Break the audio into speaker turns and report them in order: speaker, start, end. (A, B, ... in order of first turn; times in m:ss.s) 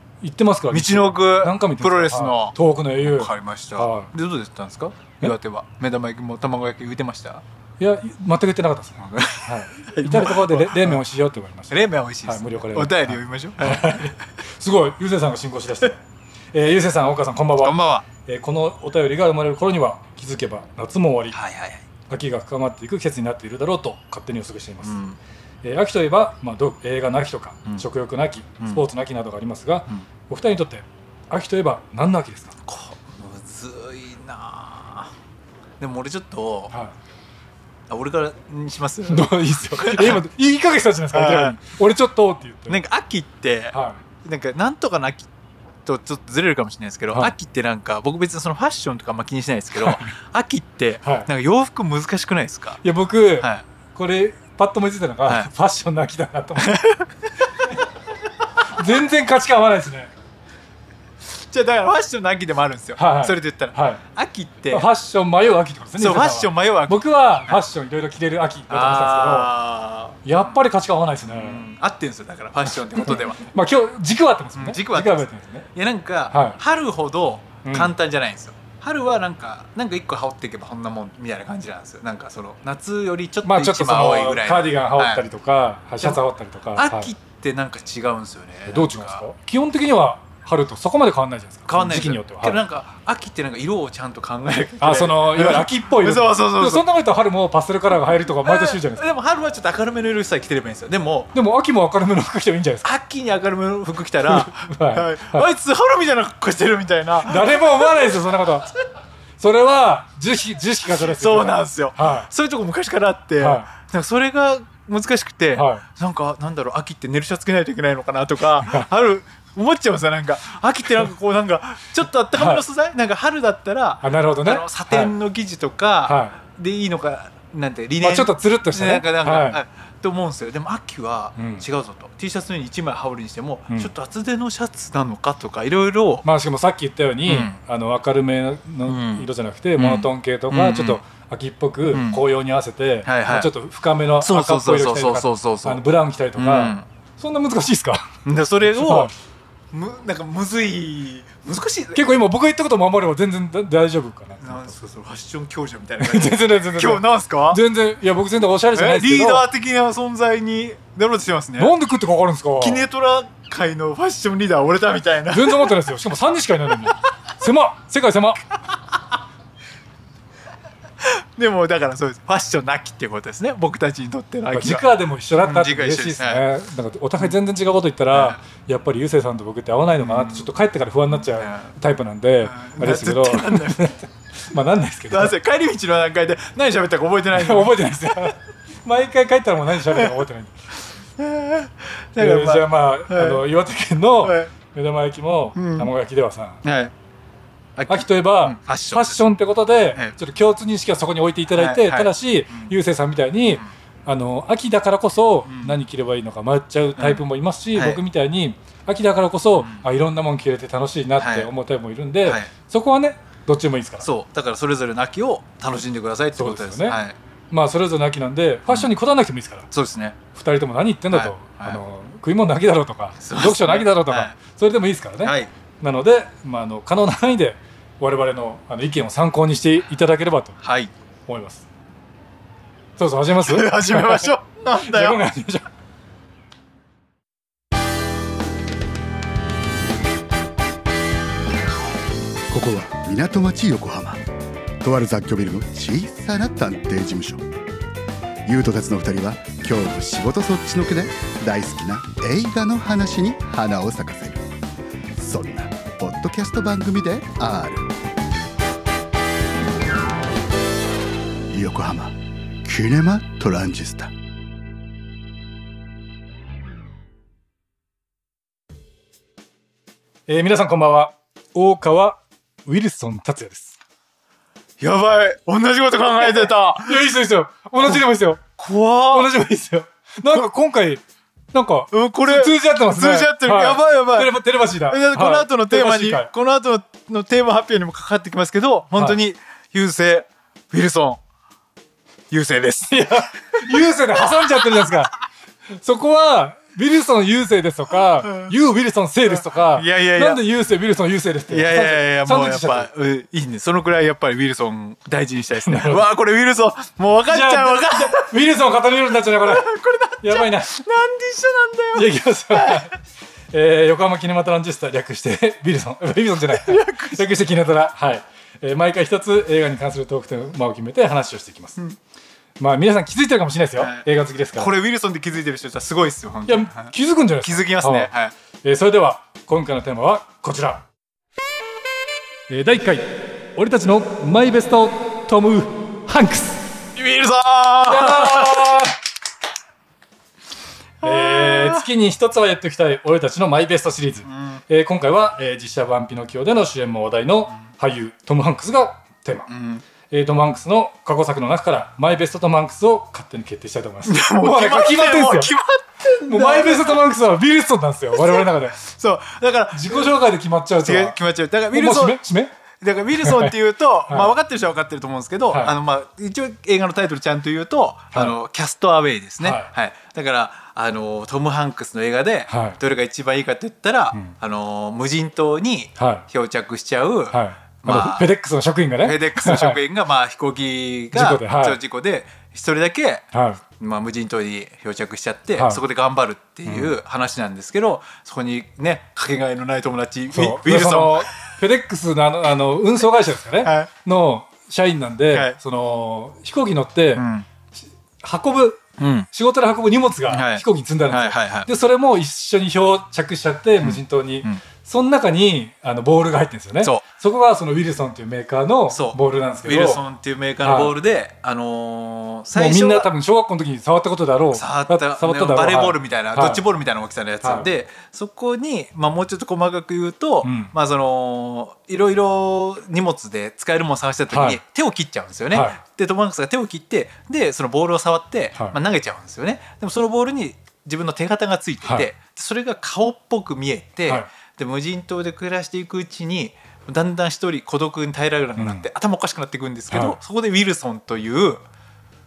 0:00.2-0:04.1 A
0:00.7-0:07.4 B
0:07.8-0:16.0 A
0:09.0-0:11.0 B
0:11.7-0:14.2 B
0:16.5-0:21.4 A
0:17.6-0:18.1 B
0:21.3-0:21.8 B
0:22.1-0:25.0 A
0:24.8-0:25.2 B
0:25.6-0:32.5 A
0:32.6-0:35.1 B
0:35.8-0:36.7 B
0:37.9-0:40.2 B
0:39.1-0:42.8 A
0:41.1-0:41.6 B
0:42.7-0:45.3 B
0:43.7-0:44.0 A
0:45.8-0:52.8 B
0:49.8-0:50.1 A
0:52.8-0:56.8 A
0:56.6-0:57.1 B
0:58.7-1:00.1 A
1:01.4-1:04.9 B
1:03.0-1:04.0 A
1:04.7-1:09.5 A
1:06.0-1:07.6 B
1:08.7-1:10.5 B
1:10.2-1:11.6 A
1:11.2-1:13.4 B
1:13.0-1:15.7 A
1:14.6-1:25.2 B
1:16.3-1:16.6 A
1:17.6-1:17.9 A
1:23.4-1:27.1 A
1:26.7-1:29.2 B
1:28.7-1:32.6 A
1:31.7-1:36.8 B
1:34.8-1:39.0 A
1:38.3-1:41.3 B
1:41.3-1:42.9 A
1:42.8-1:48.0 B
1:44.3-1:45.5 A
1:47.2-1:48.7 A
1:49.4-1:52.3 A
1:51.0-2:16.2 B
1:53.4-1:53.7 A
1:55.5-1:55.8 A
1:58.6-1:58.9 A
2:02.3-2:02.6 A
2:04.0-2:05.1 A
2:06.0-2:06.4 A
2:08.0-2:09.6 A
2:11.4-2:11.6 A
2:16.2-2:28.1 A
2:17.3-2:17.5 B
2:18.8-2:21.0 B
2:21.9-2:22.2 B
2:23.0-2:23.5 B
2:24.2-2:25.8 B
2:26.4-2:26.8 B
2:28.2-2:29.1 B
2:28.7-2:29.1 A
2:29.7-2:32.0 B
2:31.9-2:34.7 A
2:34.4-2:37.6 B
2:36.0-2:39.4 A
2:38.7-2:41.7 B
2:41.6-2:42.8 A
2:42.6-2:45.7 B
2:45.3-2:48.4 A
2:51.0-2:56.4 B
2:54.5-3:05.3 A
2:58.1-2:58.4 B
3:00.0-3:00.5 B
3:01.2-3:01.7 B
3:02.4-3:03.9 B
3:05.1-3:08.3 B
3:07.3-3:10.5 A
3:11.2-3:13.4 B
3:12.2-3:16.6 A
3:14.2-3:14.5 B
3:15.6-3:15.9 B
3:16.6-3:16.9 B
3:17.8-3:19.2 B
3:17.9-3:34.1 A
3:21.5-3:22.7 B
3:25.5-3:25.8 B
3:27.7-3:28.0 B
3:29.6-3:29.8 B
3:31.2-3:31.5 B
3:34.0-3:37.2 B
3:36.4-3:37.0 A
3:37.5-3:39.7 A
3:39.7-3:40.2 B
3:40.3-3:50.6 A
3:41.1-3:41.8 B
3:43.2-3:44.3 B
3:45.2-3:45.5 B
3:50.6-3:50.9 B
3:51.3-3:51.6 A
3:53.0-3:55.6 A
3:53.4-3:55.2 B
4:02.5-4:04.2 C
4:04.8-4:07.4 C
4:08.4-4:14.5 C
4:15.2-4:17.9 C
4:21.5-4:24.1 C
4:30.3-4:33.8 A
4:34.8-4:37.0 B
4:36.4-4:38.4 A
4:38.6-4:39.3 B
4:39.1-4:41.0 A
4:41.5-4:46.3 A
4:41.9-4:51.2 B
4:52.3-4:55.0 B
4:52.9-4:55.1 A
4:55.8-5:02.9 A
4:58.2-4:58.5 B
4:59.3-5:00.4 B
5:01.5-5:08.3 B
5:05.6-5:06.0 A
5:07.3-5:09.7 A
5:09.3-5:12.8 B
5:10.2-5:10.7 A
5:11.9-5:12.9 A
5:13.5-5:21.8 A
5:16.5-5:17.3 B
5:22.6-5:24.7 A
5:23.8-5:28.3 B
5:26.5-5:28.1 A
5:28.6-5:30.8 A
5:32.5-5:36.7 A
5:36.9-5:38.8 B
5:37.9-5:39.0 A
5:41.0-5:41.8 B
5:41.0-5:49.5 A
5:44.2-5:44.6 B
5:49.5-5:49.8 B
5:50.1-5:55.5 A
5:54.0-5:57.0 B
5:56.2-5:58.8 A
5:58.1-6:00.1 B
5:59.7-6:01.2 A
6:00.8-6:02.2 B
6:01.7-6:02.5 A
6:02.8-6:18.3 B
6:03.2-6:03.5 A
6:09.4-6:09.7 A
6:12.5-6:12.8 A
6:16.0-6:16.2 A
6:17.3-6:19.8 A
6:19.0-6:31.3 B
6:21.1-6:21.8 A
6:23.3-6:23.6 A
6:25.6-6:25.8 A
6:26.6-6:26.9 A
6:30.3-6:37.2 A
6:33.6-6:33.9 B
6:37.2-6:37.5 B
6:38.2-6:50.0 A
6:39.0-6:39.3 B
6:40.3-6:41.7 B
6:43.8-6:44.6 B
6:48.9-6:53.1 B
6:50.6-6:50.9 A
6:52.5-6:56.6 A
6:54.5-7:21.6 B
6:57.4-6:57.7 A
7:00.4-7:00.7 A
7:04.3-7:04.6 A
7:05.5-7:05.8 A
7:11.8-7:12.1 A
7:18.6-7:18.8 A
7:19.9-7:20.2 A